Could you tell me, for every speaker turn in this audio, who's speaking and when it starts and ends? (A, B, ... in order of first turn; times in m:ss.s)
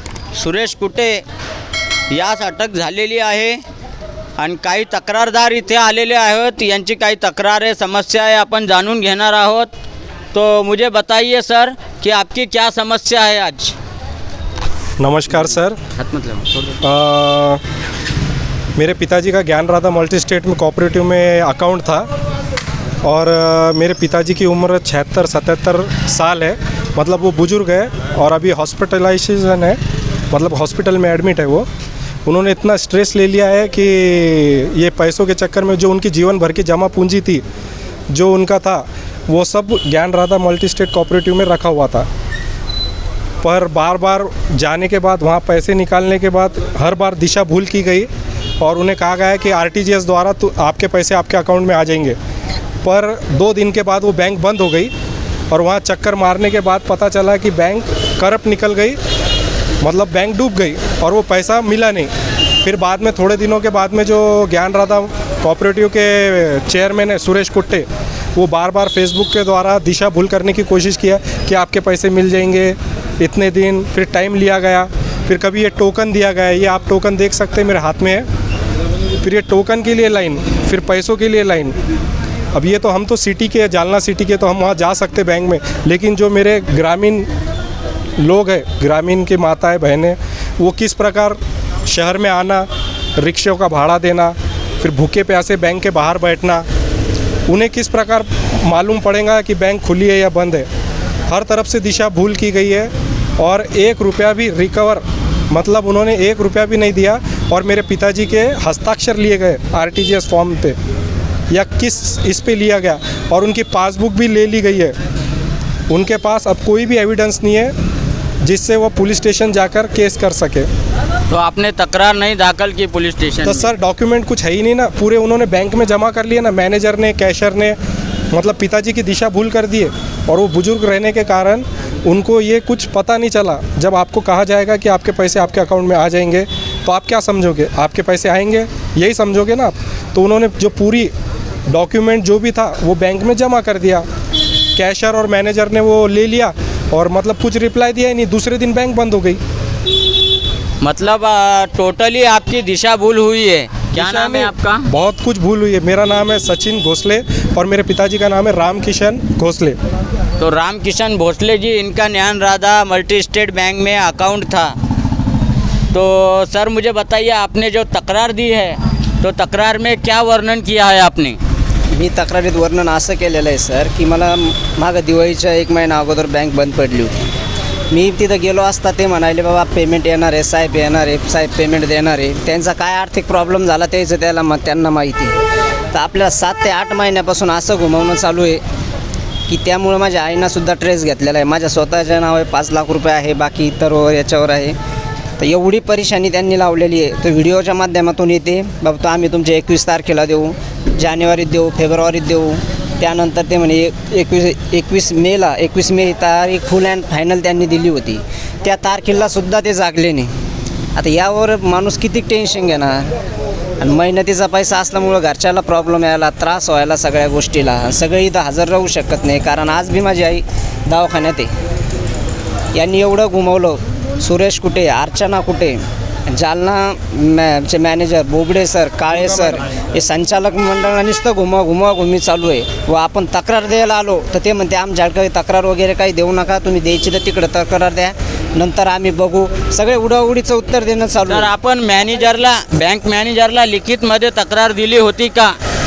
0:00.4-0:01.2 A
0:02.1-0:03.6 A
0:04.4-0:09.7 A
0:10.3-0:13.8 A
0:15.0-0:15.8 B
0:15.3-0:16.7 A
0:16.8-0:17.6 B
0:18.8-0:22.1 B
0:23.0-0:29.8 B
0:30.3-0:31.7 B
0:32.2-0:37.4 B
0:38.1-0:42.1 B
0:43.4-0:48.1 B
0:48.6-0:52.2 B
0:52.8-0:54.9 B
0:55.5-0:59.0 B
0:59.8-1:02.1 B
1:02.6-1:18.2 B
1:19.2-1:21.7 B
1:22.5-1:27.3 B
1:28.2-1:36.6 B
1:37.5-1:40.7 B
1:41.3-1:50.8 B
1:51.5-1:54.9 B
1:55.9-1:57.7 B
1:58.4-2:00.7 B
2:01.3-2:03.7 A
2:03.4-2:07.8 B
2:08.3-2:21.1 B
2:21.7-2:24.0 B
2:24.8-2:29.4 B
2:30.8-2:34.9 A
2:33.9-2:39.8 B
2:40.4-2:44.8 A
2:45.9-2:51.4 A
2:51.9-2:57.2 C
2:57.9-3:05.4 C
3:05.9-3:08.6 C
3:09.5-3:14.8 C
3:15.4-3:30.3 C
3:31.0-3:33.1 C
3:33.8-3:41.5 C
3:42.7-4:01.5 C
4:01.3-4:05.6 A